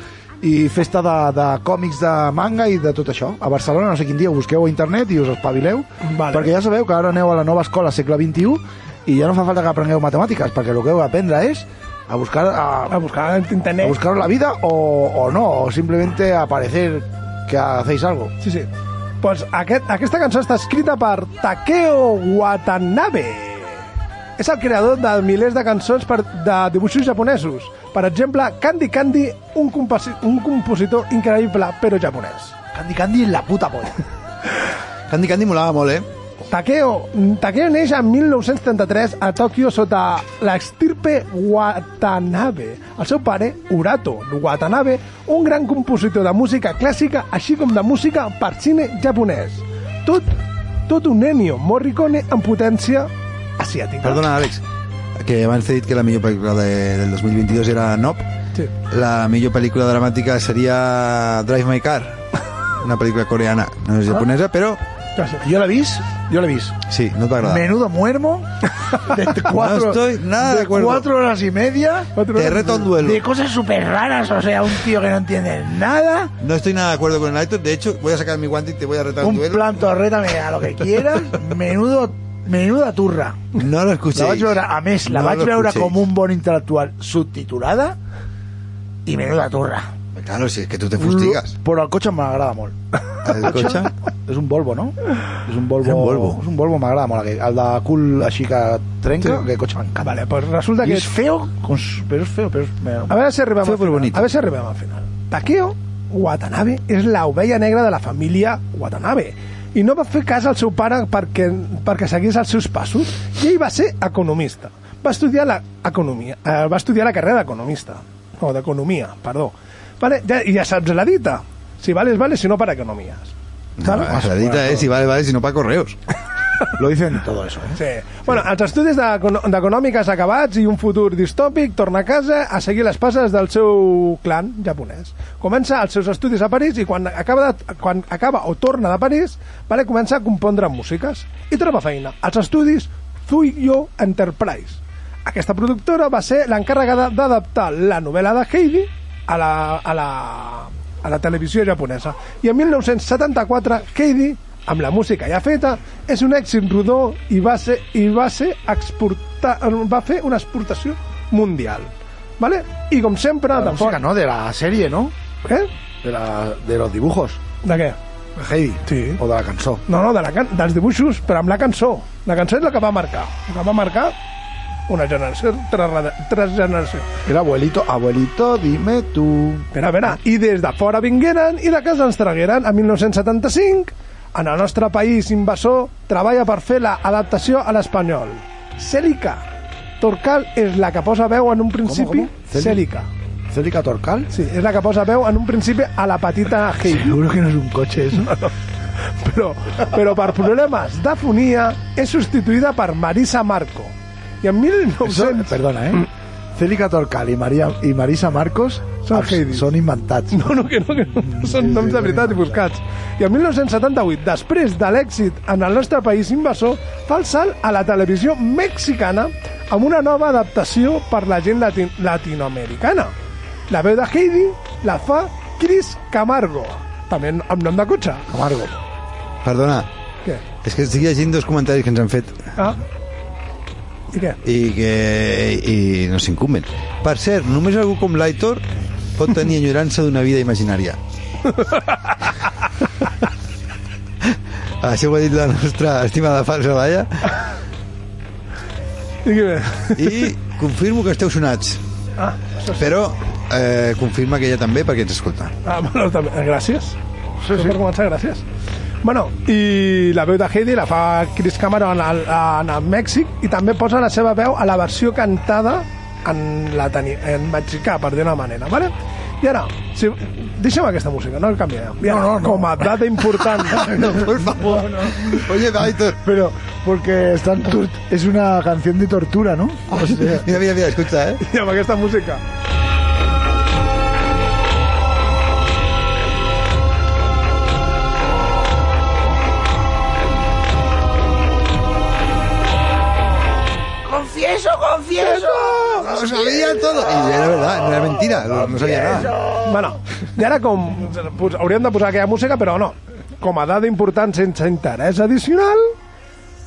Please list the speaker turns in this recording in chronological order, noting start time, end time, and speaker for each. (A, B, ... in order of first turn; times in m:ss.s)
0:00.4-0:13.0 A
0:06.0-0:06.5 B
0:12.9-0:14.0 B
0:13.8-0:18.3 A
0:18.4-0:18.7 B
0:19.2-0:23.9 B
0:24.4-0:32.5 B
0:32.7-0:34.0 A
0:35.1-0:36.0 C
0:36.5-0:50.3 B
0:50.9-0:54.2 B
0:54.0-0:54.6 C
0:55.2-0:58.3 C
0:58.9-1:02.2 C
1:02.8-1:04.8 C
1:05.2-1:05.4 B
1:05.4-1:06.8 A
1:06.9-1:07.6 C
1:07.4-1:12.2 A
1:09.4-1:11.1 C
1:12.2-1:12.9 B
1:12.3-1:13.2 C
1:12.9-1:16.3 A
1:16.4-1:19.7 C
1:19.2-1:23.5 A
1:23.5-1:26.0 C
1:24.1-1:28.0 A
1:29.0-1:29.9 A
1:30.1-1:31.5 C
1:31.0-1:32.7 A
1:33.2-1:33.9 C
1:33.3-1:40.2 A
1:35.8-1:36.4 C
1:40.0-1:41.1 B
1:40.8-1:43.2 A
1:43.1-2:03.3 B
1:43.6-1:44.3 C
2:03.8-2:06.0 C
2:03.8-2:04.9 A
2:06.8-2:07.8 A
2:07.8-2:44.0 B
2:43.5-2:45.1 A
2:46.0-2:47.4 A
2:47.6-2:48.0 B
2:48.4-2:49.8 A
2:48.9-2:49.2 B
2:49.9-2:54.1 B
2:54.9-2:57.1 B
2:57.2-2:59.7 A
2:59.7-3:09.4 B
3:10.0-3:13.1 B
3:11.8-3:12.8 A
3:13.5-3:14.3 A
3:14.3-3:17.2 B
3:16.8-3:18.4 A
3:18.2-3:18.5 B
3:19.0-3:25.6 B
3:25.0-3:30.5 A
3:29.0-3:29.7 B
3:30.3-3:43.1 B
3:31.2-3:32.6 A
3:43.7-3:48.3 B
3:48.3-3:48.8 A
3:49.4-3:49.9 C
3:50.6-3:52.5 C
3:54.1-3:54.4 B
3:54.4-3:58.6 C
3:59.2-4:01.0 C
4:01.5-4:02.1 B
4:04.8-4:07.3 C
4:09.2-4:10.3 B
4:10.0-4:11.8 C
4:12.2-4:12.8 B
4:12.8-4:15.5 C
4:15.6-4:17.0 B
4:17.4-4:17.8 A
4:17.5-4:18.4 B
4:19.0-4:33.8 B
4:32.0-4:33.2 A
4:33.7-4:36.2 C
4:33.8-4:35.3 A
4:36.2-4:40.6 A
4:39.9-4:41.4 C
4:41.4-4:42.4 B
4:54.0-4:56.0 A
4:55.6-4:56.0 B
4:56.0-4:59.3 C
4:58.8-4:59.5 A
4:59.6-5:05.9 B